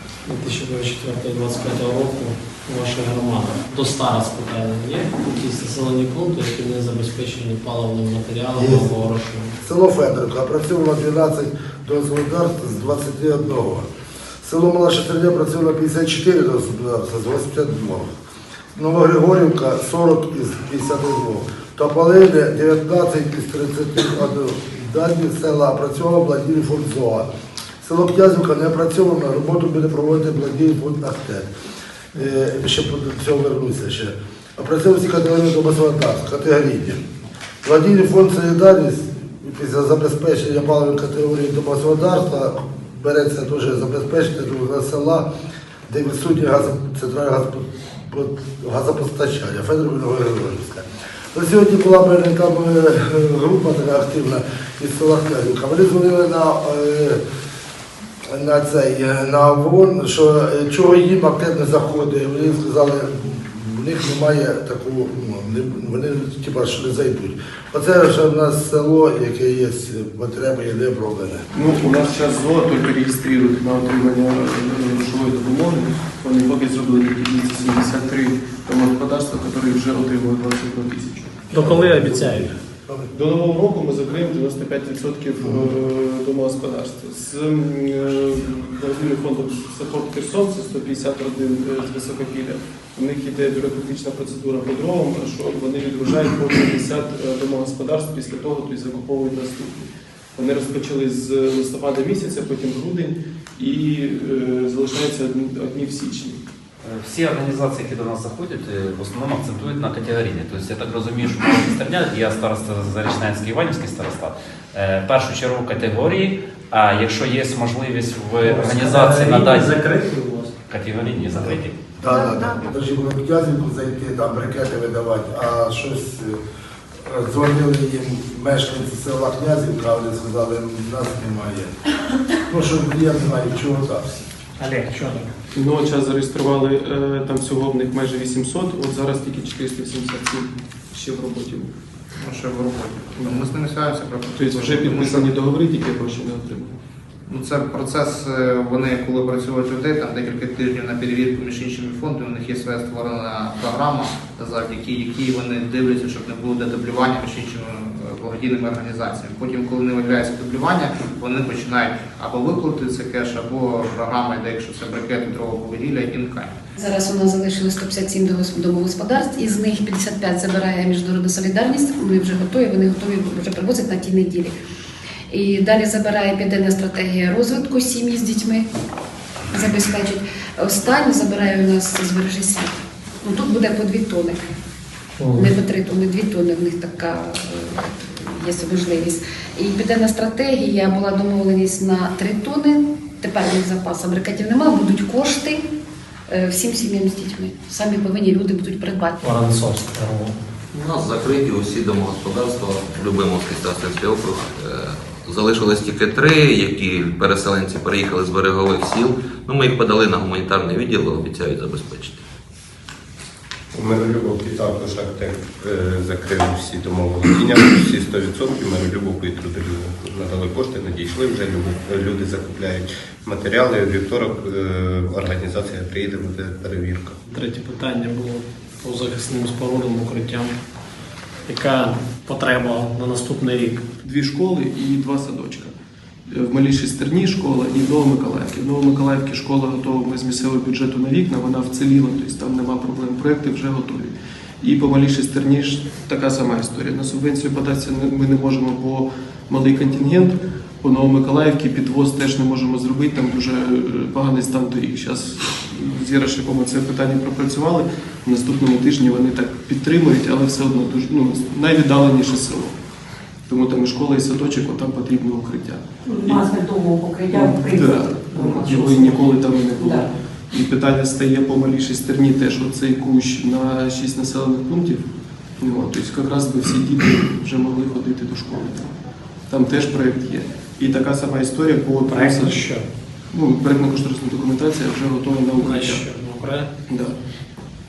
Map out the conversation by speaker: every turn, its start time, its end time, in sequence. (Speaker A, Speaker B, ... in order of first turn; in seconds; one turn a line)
Speaker A: 0.2-9.6
Speaker B: 8.6-8.8
Speaker B: 9.6-13.9
Speaker B: 14.4-18.1
Speaker B: 18.7-27.3
Speaker B: 27.8-31.5
Speaker B: 32.1-37.0
Speaker B: 37.6-45.3
Speaker B: 45.9-57.2
Speaker B: 58.3-71.4
Speaker C: 71.5-81.5
Speaker A: 81.5-82.5
Speaker B: 81.5-83.1
Speaker C: 83.1-106.4
Speaker D: 106.8-119.7
Speaker A: 118.4-120.5
Speaker D: 120.7-121.8
Speaker B: 121.3-126.3
Speaker B: 127.0-131.7
Speaker B: 132.4-134.1
Speaker A: 134.6-135.3
Speaker C: 135.5-141.7
Speaker E: 142.1-145.3
Speaker C: 143.2-143.5
Speaker C: 144.3-146.8
Speaker E: 147.3-166.5
Speaker F: 166.8-174.5
Speaker F: 175.3-178.7
Speaker F: 179.6-184.4
Speaker A: 185.2-185.6
Speaker F: 185.5-195.6
Speaker F: 196.3-199.2
Speaker A: 199.2-200.4
Speaker G: 200.7-212.2
Speaker H: 213.7-227.2
Speaker A: 227.3-230.5
Speaker A: 231.5-233.9
Speaker C: 234.0-235.7
Speaker C: 236.3-262.7
Speaker C: 263.5-266.5
Speaker I: 266.0-270.1
Speaker C: 267.3-275.1
Speaker C: 275.6-278.9
Speaker C: 279.5-282.6
Speaker A: 282.1-282.8
Speaker C: 283.3-286.0
Speaker A: 285.6-286.7
Speaker C: 286.9-287.2